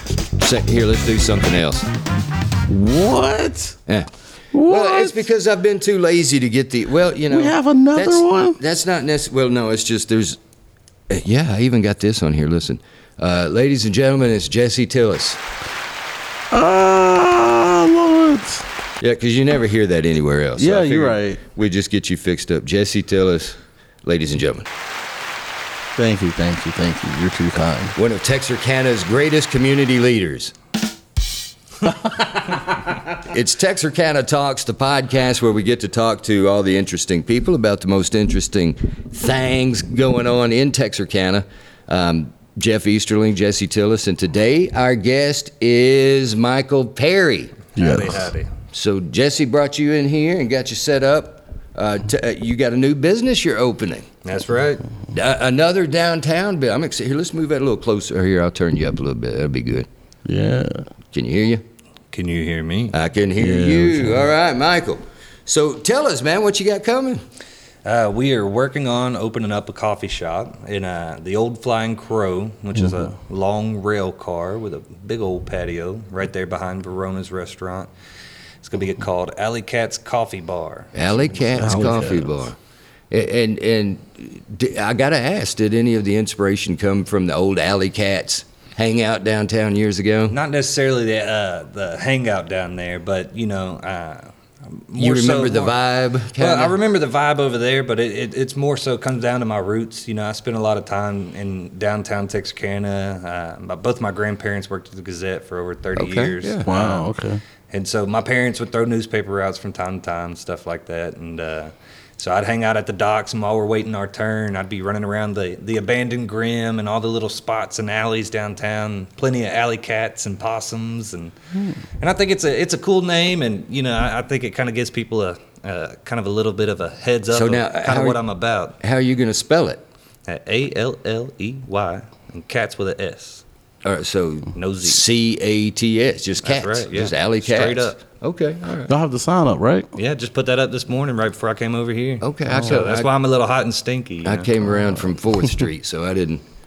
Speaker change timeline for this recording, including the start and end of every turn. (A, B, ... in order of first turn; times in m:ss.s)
0:00.4-0:01.9 A
0:02.7-0:03.8 B
0:04.5-0:05.2 B
0:04.6-0:10.4 A
0:07.3-0:08.6 B
0:11.1-0:15.4 A
0:16.5-0:18.7 B
0:19.0-0:24.7 A
0:20.6-0:21.4 B
0:26.0-0:28.0 B
0:28.0-0:30.6 A
0:33.1-0:47.6 A
0:47.7-0:48.5 C
0:47.8-0:48.2 B
0:48.7-0:54.1 A
0:54.2-0:54.8 C
0:55.1-0:59.9 A
1:00.2-1:00.9 B
1:01.1-1:01.6 A
1:02.1-1:02.9 C
1:02.9-1:07.2 A
1:03.4-1:04.2 B
1:07.8-1:17.9 C
1:18.6-1:21.9 C
1:20.9-1:22.6 A
1:21.6-1:22.4 B
1:23.1-1:30.4 A
1:30.3-1:35.8 C
1:35.0-1:36.8 A
1:36.4-1:47.1 C
1:46.0-1:46.7 A
1:46.6-1:47.4 B
1:47.7-2:01.4 C
2:02.0-2:08.8 C
2:07.3-2:08.2 A
2:08.8-2:09.8 A
2:10.3-2:13.4 C
2:13.8-2:18.9 A
2:14.6-2:15.0 C
2:16.4-2:18.0 C
2:18.9-2:19.9 B
2:20.0-2:24.5 C
2:22.2-2:23.1 A
2:22.5-2:22.8 B
2:24.2-2:26.4 A